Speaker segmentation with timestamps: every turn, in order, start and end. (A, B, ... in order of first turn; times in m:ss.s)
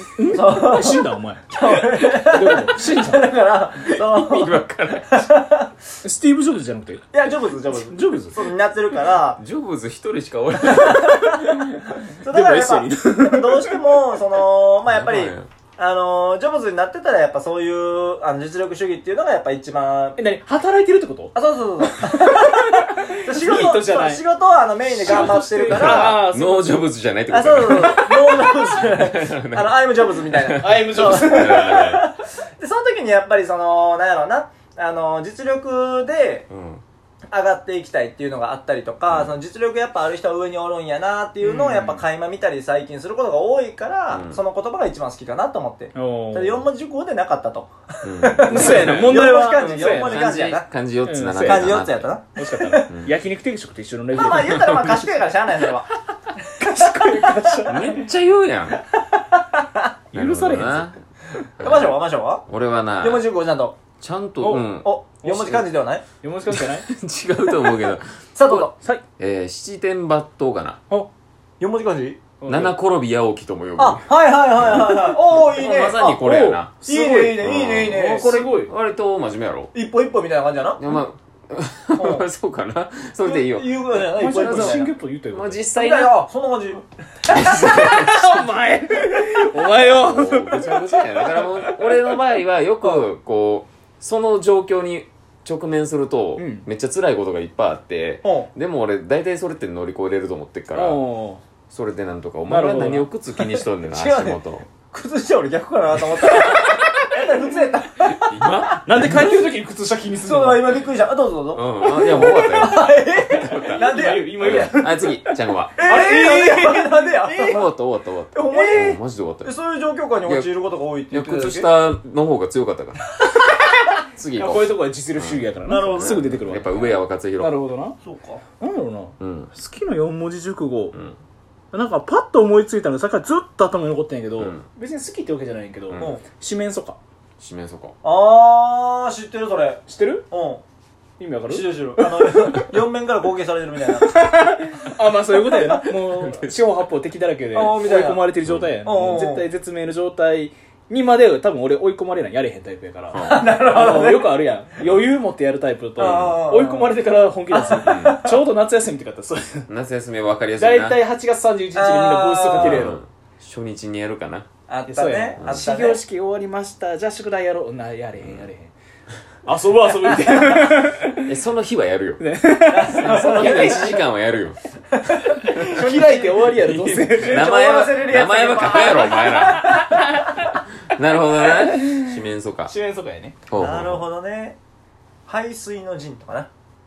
0:00.2-0:03.3 A
0:00.3-0:04.6 B
0:03.8-0:05.1 C
0:05.1-0:05.7 B
0:06.0-0:07.2 A
0:07.1-0:09.4 B
0:07.7-0:08.4 A
0:09.4-0:11.1 C
0:10.6-0:11.6 B
0:11.4-0:13.8 A
0:12.1-0:20.2 B
0:14.9-0:15.5 C
0:20.2-0:21.4 A
0:21.4-0:26.2 B
0:21.9-0:24.2 A
0:24.9-0:26.8 A
0:25.0-0:29.8 C
0:27.3-0:36.5 B
0:27.7-0:28.5 A
0:30.4-0:32.0 C
0:30.6-0:31.9 A
0:36.5-0:36.8 C
0:37.3-0:50.7 B
0:39.1-0:39.4 C
0:41.4-0:42.0 A
0:44.1-0:44.4 C
0:45.9-0:46.7 A
0:48.0-0:52.1 C
0:48.5-0:50.3 A
0:51.0-0:55.0 A
0:51.4-0:52.9 B
0:52.9-0:53.1 C
0:54.1-0:57.6 B
0:56.6-0:58.1 A
0:57.6-0:58.8 C
0:59.0-0:59.8 B
1:00.1-1:00.9 A
1:00.1-1:01.0 C
1:01.6-1:02.0 C
1:01.6-1:02.5 B
1:02.5-1:03.2 C
1:03.0-1:03.8 B
1:04.0-1:04.9 C
1:04.4-1:04.7 A
1:04.8-1:06.0 B
1:05.2-1:05.7 A
1:06.2-1:06.9 A
1:06.5-1:10.8 C
1:08.4-1:08.7 B
1:11.6-1:12.2 B
1:12.4-1:12.8 A
1:12.5-1:16.8 C
1:13.8-1:16.2 B
1:16.2-1:18.7 A
1:16.8-1:18.4 B
1:17.4-1:19.7 C
1:19.7-1:20.8 B
1:20.8-1:26.2 C
1:22.0-1:22.3 B
1:23.2-1:24.9 B
1:24.1-1:25.6 A
1:25.8-1:27.7 B
1:27.3-1:28.5 C
1:27.7-1:31.9 A
1:29.9-1:41.0 C
1:36.4-1:36.7 A
1:38.2-1:38.5 B
1:40.7-1:41.4 A
1:41.7-1:44.7 C
1:42.5-1:43.1 A
1:43.4-1:49.2 B
1:48.1-1:49.1 C
1:48.8-1:50.8 A
1:50.2-1:54.7 B
1:51.5-1:56.2 C
1:52.2-1:52.7 A
1:53.5-1:57.6 A
1:55.8-1:57.7 B
1:57.3-1:59.6 C
1:58.3-2:01.7 B
1:58.5-1:58.9 A
2:00.2-2:00.6 C
2:01.1-2:03.0 C
2:04.1-2:07.6 C
2:04.4-2:08.0 A
2:05.7-2:06.2 B
2:08.0-2:08.4 B
2:08.6-2:11.0 A
2:09.2-2:09.5 C
2:10.9-2:11.2 C
2:11.7-2:17.0 A
2:14.4-2:14.7 C
2:15.9-2:16.1 C
2:16.0-2:16.2 B
2:17.4-2:18.0 C
2:18.0-2:20.6 B
2:19.9-2:20.3 A
2:21.2-2:22.8 A
2:21.5-2:24.2 B
2:23.9-2:39.7 A
2:25.6-2:26.5 C
2:27.5-2:28.2 B
2:28.4-2:28.8 C
2:28.8-2:29.5 B
2:33.1-2:33.5 C
2:33.2-2:34.4 B
2:36.0-2:36.9 B
2:36.0-2:36.4 C
2:37.5-2:38.4 B
2:37.8-2:38.2 C
2:39.7-2:41.0 C
2:40.6-2:43.0 A
2:41.8-2:42.9 B
2:42.6-2:44.5 C
2:44.7-2:46.0 B
2:44.9-2:48.7 A
2:45.4-2:45.6 C
2:48.2-2:48.5 C
2:49.5-2:51.3 A
2:51.2-2:52.2 C
2:52.2-2:54.0 A
2:52.7-2:54.0 B
2:52.9-2:54.6 C
2:54.9-2:56.7 B
2:55.4-2:57.5 A
2:56.6-2:59.9 C
2:57.3-3:00.2 B
2:59.0-3:00.2 A
3:00.9-3:02.7 C
3:01.4-3:03.4 A
3:03.5-3:04.1 C
3:03.6-3:04.6 B
3:05.3-3:06.5 B